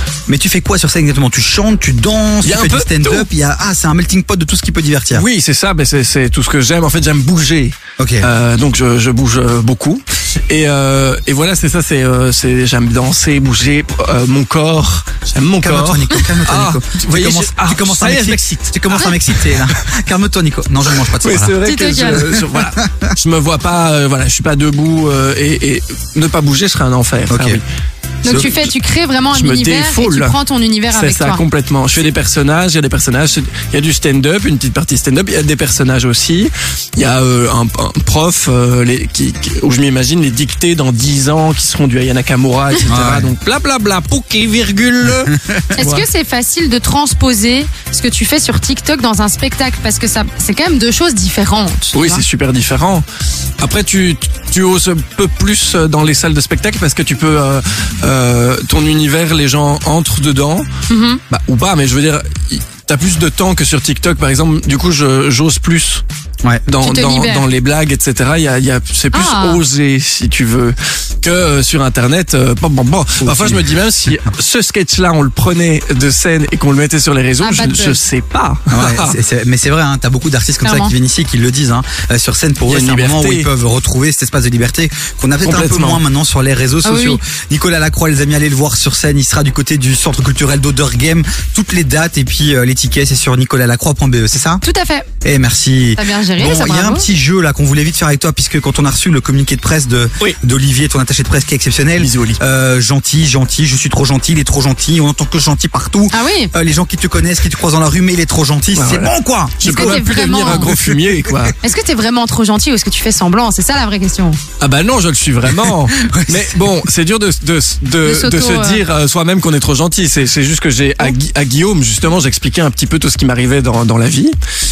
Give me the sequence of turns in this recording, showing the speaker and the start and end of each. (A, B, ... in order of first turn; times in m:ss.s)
0:00.3-0:05.2 A
0:02.4-0:03.3 B
0:05.1-0:19.6 B
0:08.0-0:08.3 A
0:15.6-0:21.6 A
0:21.1-0:27.6 B
0:21.6-0:22.2 C
0:22.1-0:23.1 A
0:27.3-0:27.6 A
0:28.2-0:28.7 B
0:28.2-0:31.4 C
0:29.3-0:30.4 B
0:30.9-0:46.1 B
0:42.9-0:43.3 A
0:45.5-0:45.8 A
0:45.8-0:52.2 C
0:51.9-0:53.0 B
0:53.6-1:00.7 B
1:00.9-1:01.2 C
1:01.3-1:06.0 B
1:06.7-1:19.2 B
1:06.8-1:07.4 C
1:09.1-1:09.6 C
1:13.2-1:13.7 A
1:17.4-1:18.0 C
1:18.7-1:34.6 A
1:20.6-1:20.9 C
1:22.7-1:23.5 B
1:25.4-1:26.0 B
1:26.8-1:27.2 C
1:34.6-1:35.1 C
1:35.2-1:51.5 A
1:36.0-1:37.1 C
1:42.0-1:42.4 B
1:46.1-1:46.5 C
1:48.8-1:51.6 B
1:49.6-1:50.8 C
1:51.6-1:54.4 C
1:54.6-2:04.4 B
1:55.7-1:56.6 A
1:58.0-1:58.8 C